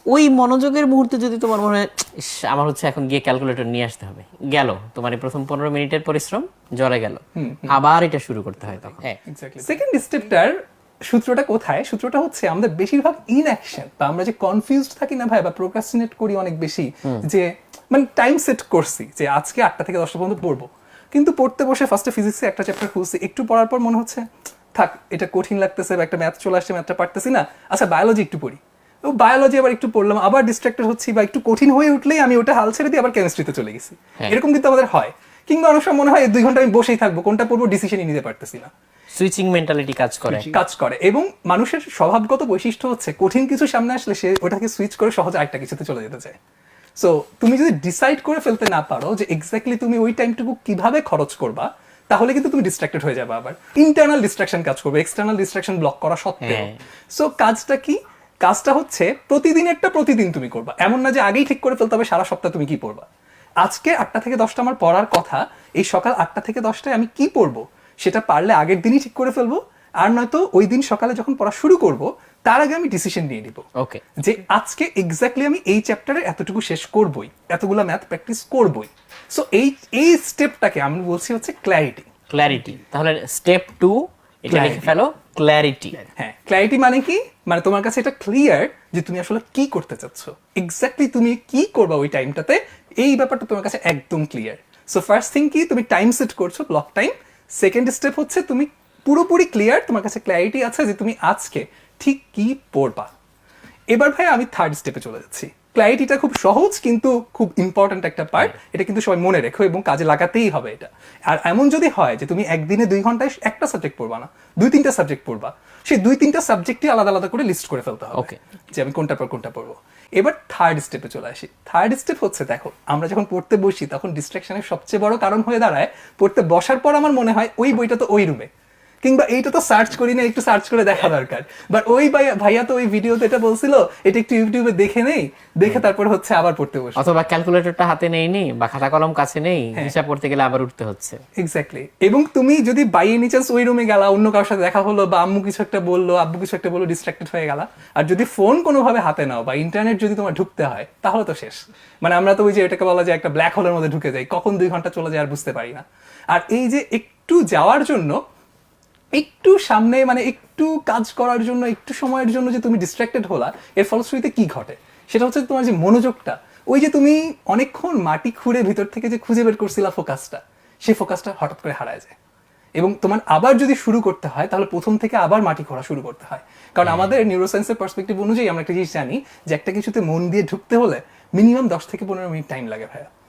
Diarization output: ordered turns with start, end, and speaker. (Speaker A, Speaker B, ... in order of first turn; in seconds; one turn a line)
Speaker A: 0.1-9.2
Speaker B: 7.4-7.8
Speaker B: 9.2-10.6
Speaker B: 11.1-38.7
Speaker A: 39.2-40.5
Speaker B: 40.3-46.4
Speaker B: 47.0-63.1
Speaker A: 56.4-56.8
Speaker B: 63.6-73.7
Speaker A: 73.8-74.0
Speaker B: 74.2-82.1
Speaker A: 82.3-86.0
Speaker B: 84.5-84.9
Speaker B: 86.2-103.1
Speaker B: 103.9-128.5
Speaker B: 129.1-137.1
Speaker A: 137.0-141.2
Speaker B: 141.4-158.2
Speaker B: 159.1-172.2
Speaker B: 172.8-183.1
Speaker A: 176.8-177.2